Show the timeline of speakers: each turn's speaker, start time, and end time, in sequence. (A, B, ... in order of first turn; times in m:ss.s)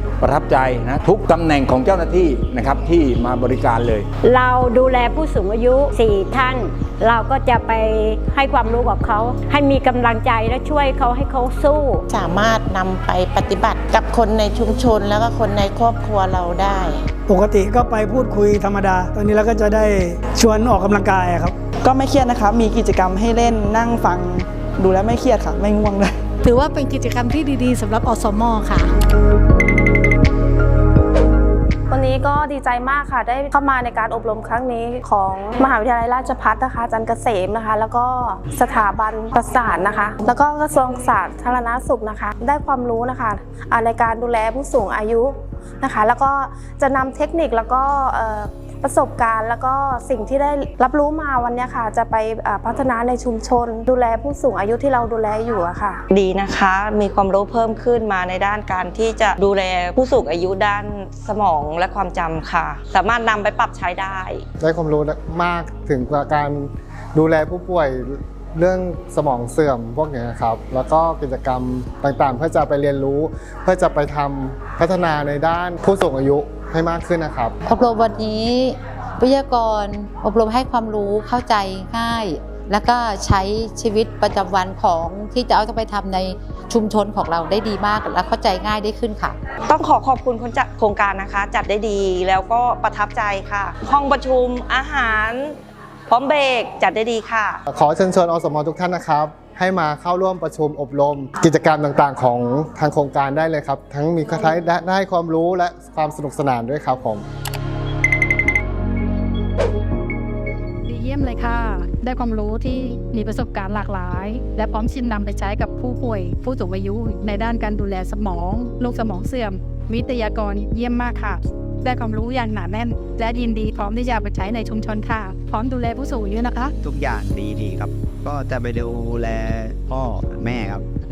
0:00.2-0:04.1 A
0:04.2-0:12.0 B
0:12.1-0:17.0 C
0:17.3-0:21.5 D
0:21.8-0:26.1 E
0:26.4-0:28.9 F
0:31.9-0:56.0 G
0:56.1-1:04.4 H
1:04.6-1:17.6 I
1:17.6-1:29.4 J
1:29.7-1:35.6 H
1:36.1-1:37.6 H
1:37.7-1:47.2 I
1:50.9-2:06.7 K
2:06.8-2:10.9 L